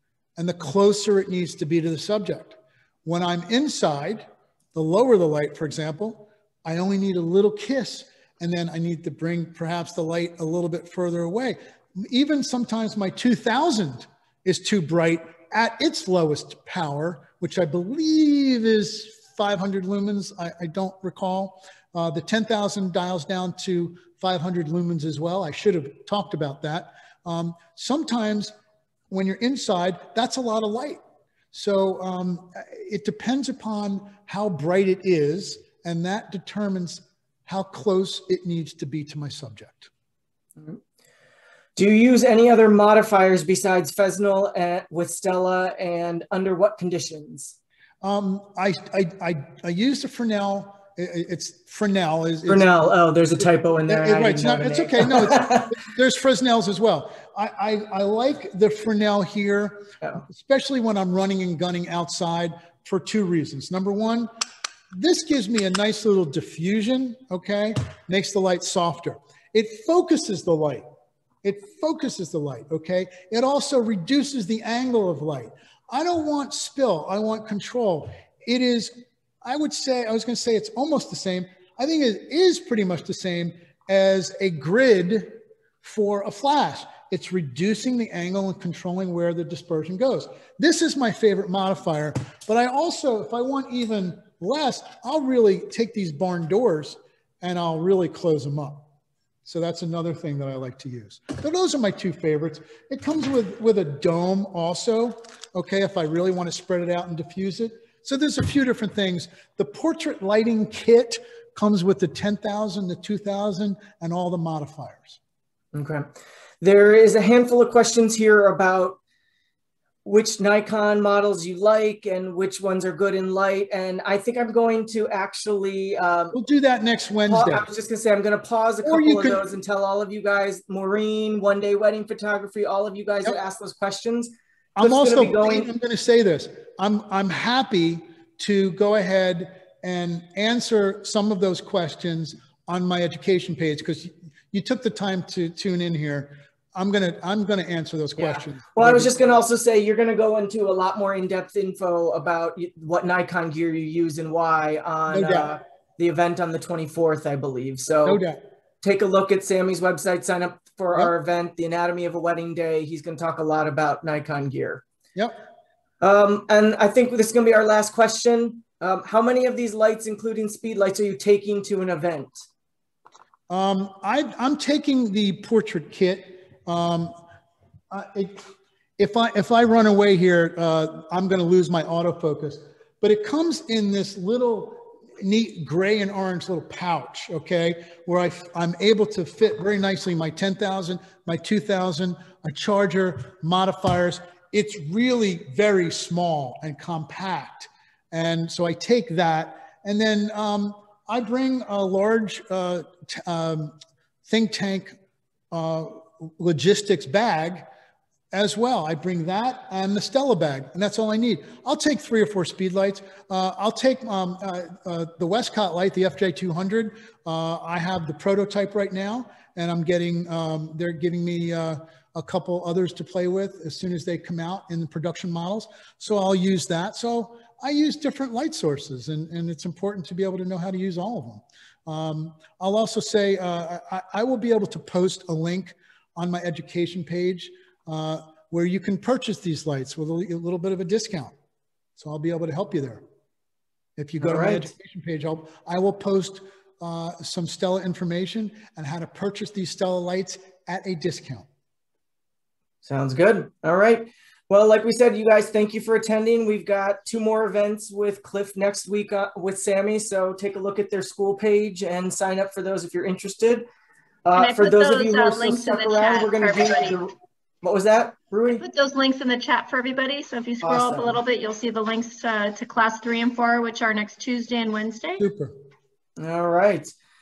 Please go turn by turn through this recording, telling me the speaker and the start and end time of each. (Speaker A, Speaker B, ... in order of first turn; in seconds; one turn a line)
Speaker A: 0.4-28.5
Speaker A: 29.1-31.0
Speaker A: 31.5-39.9
Speaker B: 41.8-47.5
Speaker A: 48.0-52.7
Speaker B: 52.5-55.8
Speaker A: 53.9-64.3
Speaker A: 64.9-70.8
Speaker A: 71.4-78.9
Speaker A: 79.4-98.9
Speaker A: 99.4-115.2
Speaker B: 115.7-116.1
Speaker B: 116.6-119.0
Speaker B: 120.0-126.4
Speaker A: 126.3-127.7
Speaker B: 127.3-135.7
Speaker A: 128.8-129.4
Speaker A: 134.8-149.1
Speaker B: 148.2-158.2
Speaker A: 155.1-155.5
Speaker A: 158.0-158.4
Speaker B: 158.8-164.8
Speaker A: 165.1-165.4
Speaker B: 166.0-172.4
Speaker A: 173.5-177.2
Speaker A: 177.9-178.4
Speaker A: 179.0-204.9
Speaker A: 205.5-207.7
Speaker A: 208.3-241.3
Speaker A: 242.0-243.0
Speaker A: 244.0-251.5
Speaker B: 244.2-244.7
Speaker B: 252.8-263.7
Speaker B: 264.2-268.6
Speaker C: 264.3-267.0
Speaker C: 268.6-275.2
Speaker B: 270.6-271.2
Speaker A: 275.2-275.5
Speaker B: 276.2-276.9